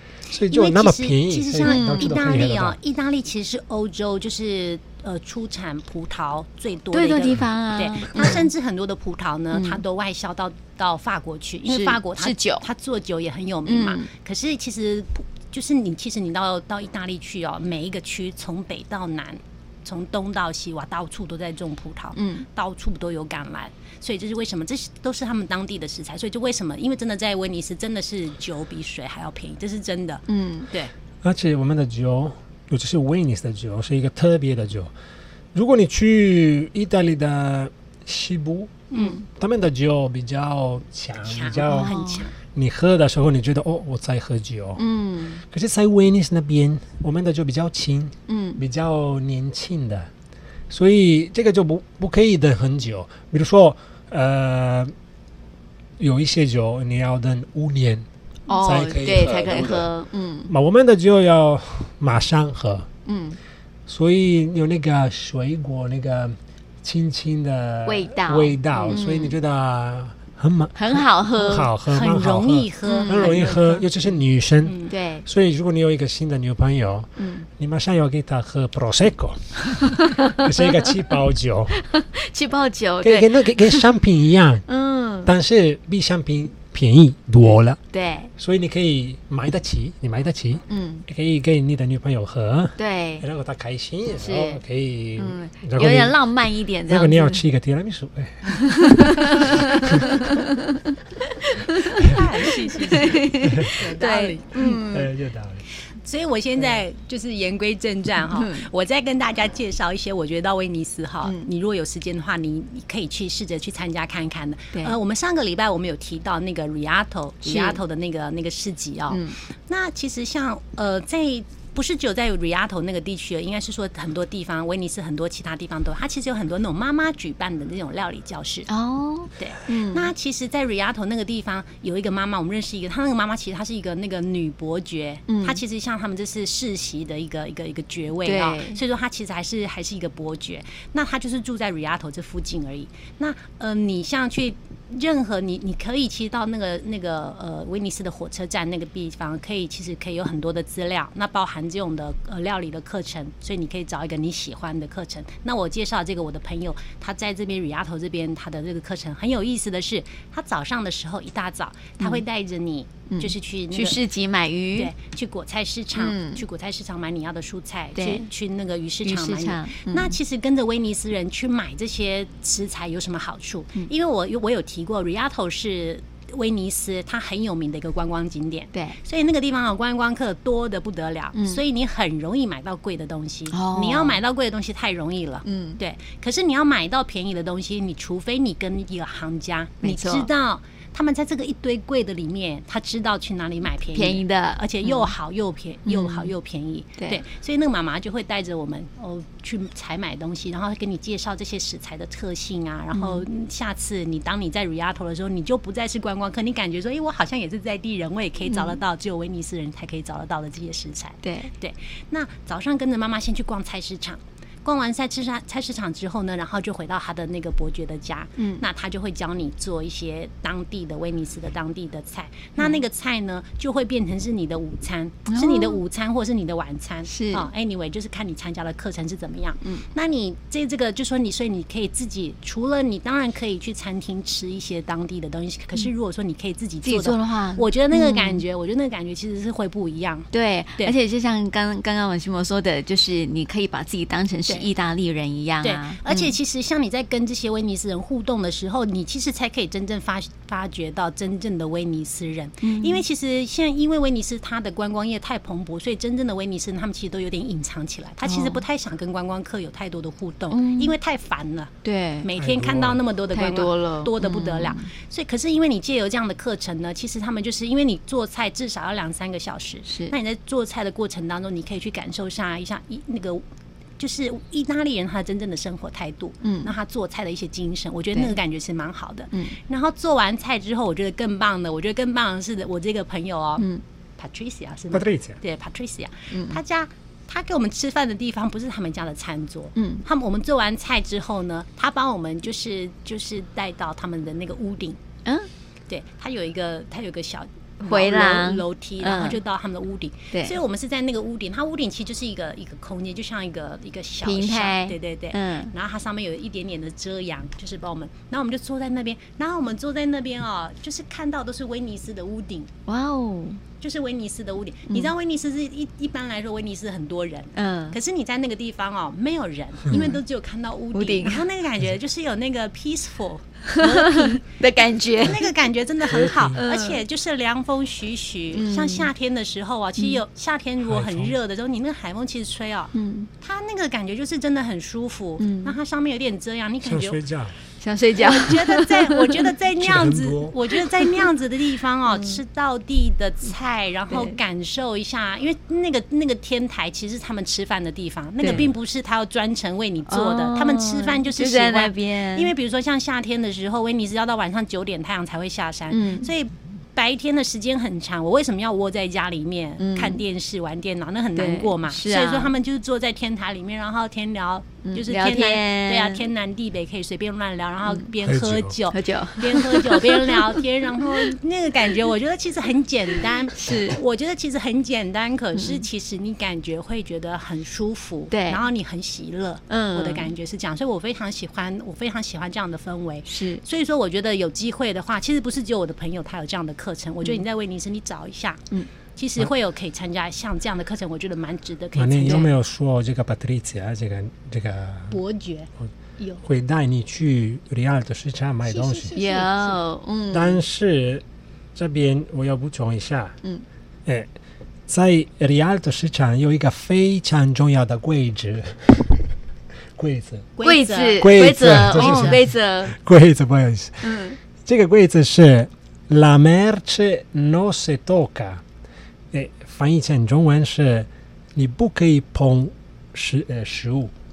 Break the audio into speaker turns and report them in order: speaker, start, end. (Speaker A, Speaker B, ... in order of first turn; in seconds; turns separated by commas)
Speaker A: 0.3-2.8, Speaker B: 0.5-30.9, Speaker C: 1.6-2.2, Speaker C: 6.9-8.5, Speaker C: 9.5-9.8, Speaker C: 11.7-12.7, Speaker C: 13.7-14.1, Speaker C: 22.1-22.5, Speaker C: 30.3-30.7, Speaker A: 31.2-34.9, Speaker A: 35.5-44.8, Speaker B: 38.9-39.2, Speaker C: 38.9-39.2, Speaker B: 41.3-42.3, Speaker C: 41.7-42.3, Speaker C: 44.8-45.4, Speaker A: 45.5-50.1, Speaker C: 48.3-48.6, Speaker A: 50.7-54.9, Speaker A: 56.0-58.1, Speaker C: 58.5-60.5, Speaker A: 58.6-59.9, Speaker A: 60.5-62.9, Speaker C: 63.1-63.4, Speaker A: 63.9-81.7, Speaker C: 67.9-69.4, Speaker C: 70.8-71.7, Speaker B: 71.8-73.9, Speaker C: 72.9-73.4, Speaker B: 74.7-74.9, Speaker C: 74.9-75.3, Speaker C: 77.2-77.5, Speaker C: 79.7-80.9, Speaker C: 81.8-83.9, Speaker A: 83.0-84.6, Speaker C: 84.7-85.3, Speaker A: 85.2-87.8, Speaker C: 87.9-88.3, Speaker A: 88.4-96.2, Speaker C: 90.7-91.1, Speaker C: 92.8-93.3, Speaker C: 94.2-94.6, Speaker C: 95.2-97.4, Speaker A: 96.9-100.1, Speaker C: 98.5-102.2, Speaker B: 102.0-104.8, Speaker C: 102.7-105.1, Speaker A: 104.9-105.6, Speaker B: 106.0-128.7, Speaker C: 108.3-108.7, Speaker C: 117.5-117.8, Speaker C: 119.1-119.4, Speaker C: 128.7-130.1, Speaker B: 129.4-164.0, Speaker C: 135.3-135.6, Speaker C: 138.2-138.8, Speaker C: 163.1-164.9, Speaker B: 164.8-240.9, Speaker C: 166.0-166.4, Speaker C: 167.9-168.3, Speaker C: 169.1-170.2, Speaker C: 181.3-181.6, Speaker C: 183.5-184.2, Speaker C: 185.4-185.8, Speaker C: 189.8-190.3, Speaker C: 193.9-195.1, Speaker C: 195.9-196.3, Speaker C: 202.9-203.2, Speaker C: 208.5-208.8, Speaker C: 211.2-211.5, Speaker C: 218.4-218.6, Speaker C: 225.3-225.8, Speaker C: 227.1-227.5, Speaker C: 236.8-238.4, Speaker C: 240.3-246.3, Speaker B: 245.6-273.4, Speaker C: 252.6-253.0, Speaker C: 258.2-258.6, Speaker C: 260.5-260.9, Speaker C: 261.8-262.3, Speaker A: 262.4-263.0, Speaker C: 263.3-264.9, Speaker C: 269.9-270.1, Speaker B: 274.0-283.7, Speaker C: 276.4-276.7, Speaker B: 284.2-295.0, Speaker A: 284.9-285.4, Speaker C: 286.3-286.6, Speaker C: 289.8-290.0, Speaker B: 295.9-312.7, Speaker C: 297.8-299.4, Speaker C: 304.2-305.7, Speaker C: 312.9-313.6, Speaker B: 313.8-324.6, Speaker C: 317.6-318.0, Speaker C: 319.9-320.2, Speaker C: 320.9-321.4, Speaker C: 323.7-325.5, Speaker B: 325.2-337.2, Speaker A: 326.0-326.6, Speaker C: 326.6-327.0, Speaker C: 328.5-329.1, Speaker A: 330.8-331.4, Speaker C: 332.9-333.3, Speaker C: 335.4-335.8, Speaker A: 336.8-337.6, Speaker C: 337.8-339.5, Speaker B: 338.2-388.6, Speaker A: 339.8-340.6, Speaker C: 340.8-341.2, Speaker C: 342.1-342.4, Speaker C: 344.1-344.4, Speaker C: 348.4-348.7, Speaker C: 350.1-352.5, Speaker C: 355.9-356.3, Speaker C: 359.8-360.2, Speaker C: 361.4-362.5, Speaker C: 364.8-366.2, Speaker A: 368.2-368.8, Speaker C: 368.9-371.3, Speaker C: 373.5-374.0, Speaker C: 375.6-375.8, Speaker C: 378.3-378.6, Speaker C: 379.7-380.3, Speaker C: 383.3-383.6, Speaker B: 389.2-392.5, Speaker A: 391.9-395.2, Speaker C: 392.2-392.5, Speaker B: 395.1-396.4, Speaker A: 396.4-399.1, Speaker B: 398.6-399.8, Speaker C: 399.1-400.6, Speaker A: 400.3-401.2, Speaker A: 401.8-403.4, Speaker A: 404.9-409.3, Speaker A: 410.0-410.5, Speaker B: 410.6-412.4, Speaker C: 410.6-413.0, Speaker A: 411.2-418.6, Speaker C: 414.0-414.4, Speaker A: 419.3-424.1